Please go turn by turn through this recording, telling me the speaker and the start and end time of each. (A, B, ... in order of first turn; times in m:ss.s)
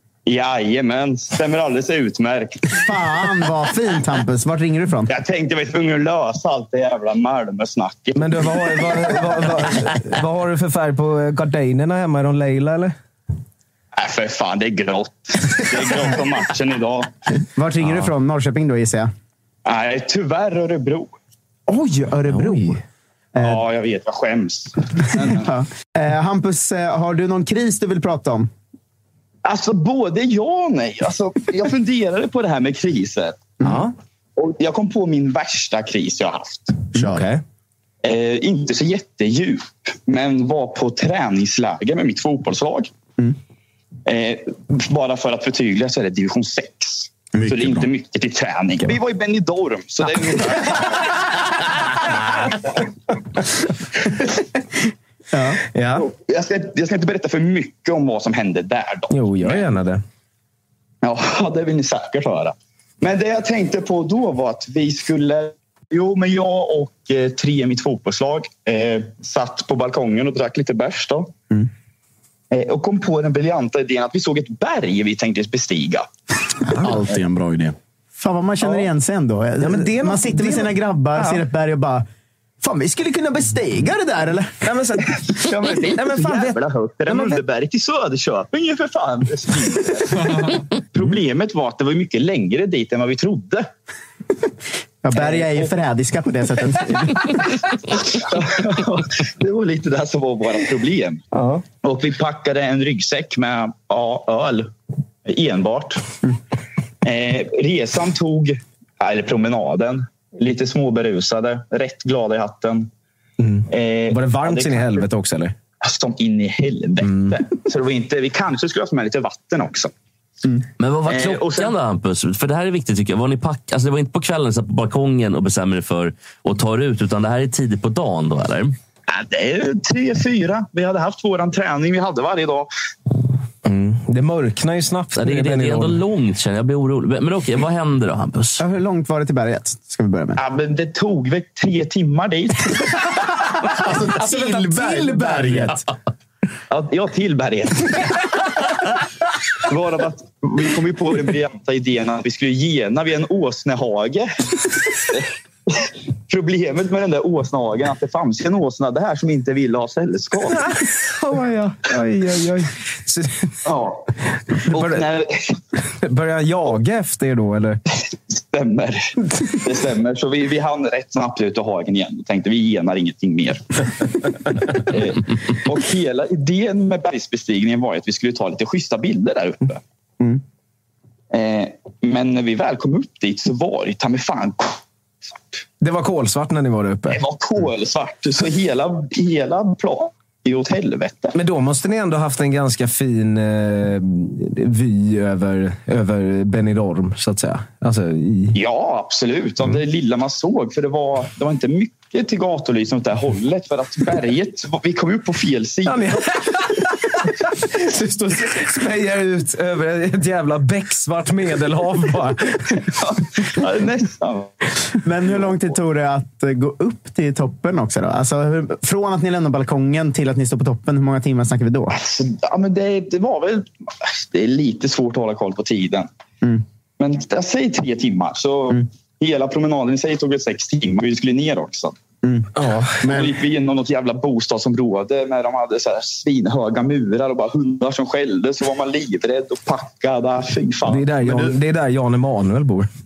0:00.2-0:02.9 A
0:02.8-0:05.1 B
0:05.1-0:09.6 A
0:08.2-0:12.9 C
0:14.0-0:17.1 A
0:17.6-0:19.1 B
0:19.6-0:21.2 A
0:21.7-0:22.8 B
0:22.3-0:22.8 C
0:23.4-0:25.5 A
0:25.4-0:28.5 B
0:29.4-0:33.4 A
0:33.6-0:33.9 B
0:33.6-0:33.9 C
0:34.4-0:36.9 A
0:36.9-0:37.2 D
0:37.0-0:37.4 C
0:38.0-0:42.9 A
0:44.0-0:51.0 A
0:47.4-0:47.9 D
0:55.3-0:55.6 B
0:55.7-0:56.1 C
0:56.0-0:59.7 A
0:59.1-1:00.0 C
1:01.0-1:11.3 A
1:12.5-1:16.1 A
1:16.8-1:17.8 D
1:18.2-1:22.0 B
1:19.6-1:21.4 C
1:22.6-1:24.7 B
1:24.6-1:25.4 C
1:25.4-1:30.4 A
1:25.9-1:27.4 C
1:30.9-1:33.7 A
1:35.0-1:37.5 B
1:35.1-1:35.7 A
1:38.2-1:41.2 A
1:41.8-1:44.7 A
1:45.2-1:46.0 A
1:47.0-1:52.9 A
1:53.4-1:55.5 C
1:53.7-1:55.0 A
1:55.8-1:59.9 A
1:57.0-1:57.4 C
2:00.8-2:08.8 E
2:01.0-2:01.7 A
2:09.1-2:12.7 A
2:13.6-2:16.0 C
2:15.2-2:18.6 E
2:18.6-2:20.4 B
2:20.4-2:22.8 A
2:23.8-2:25.7 D
2:24.2-2:25.8 C
2:24.2-2:25.8 B
2:26.7-2:27.9 A
2:29.7-2:34.3 A
2:35.1-2:40.6 A
2:40.5-2:43.5 C
2:43.6-2:44.1 A
2:44.7-2:45.5 A
2:44.7-2:45.1 C
2:46.0-2:47.8 C
2:48.3-2:53.7 A
2:54.9-2:59.8 A
3:01.3-3:04.8 A
3:05.3-3:05.6 A
3:05.8-3:07.2 C
3:07.1-3:11.4 A
3:11.3-3:18.6 C
3:18.5-3:26.1 A
3:25.8-3:27.1 C
3:27.6-3:32.7 C
3:33.0-3:34.6 A
3:35.0-3:41.9 B
3:41.9-3:46.1 A
3:47.0-3:52.0 A
3:52.6-3:53.1 C
3:53.0-3:53.3 D
3:53.0-4:01.1 A
4:00.8-4:02.9 C
4:01.2-4:01.5 D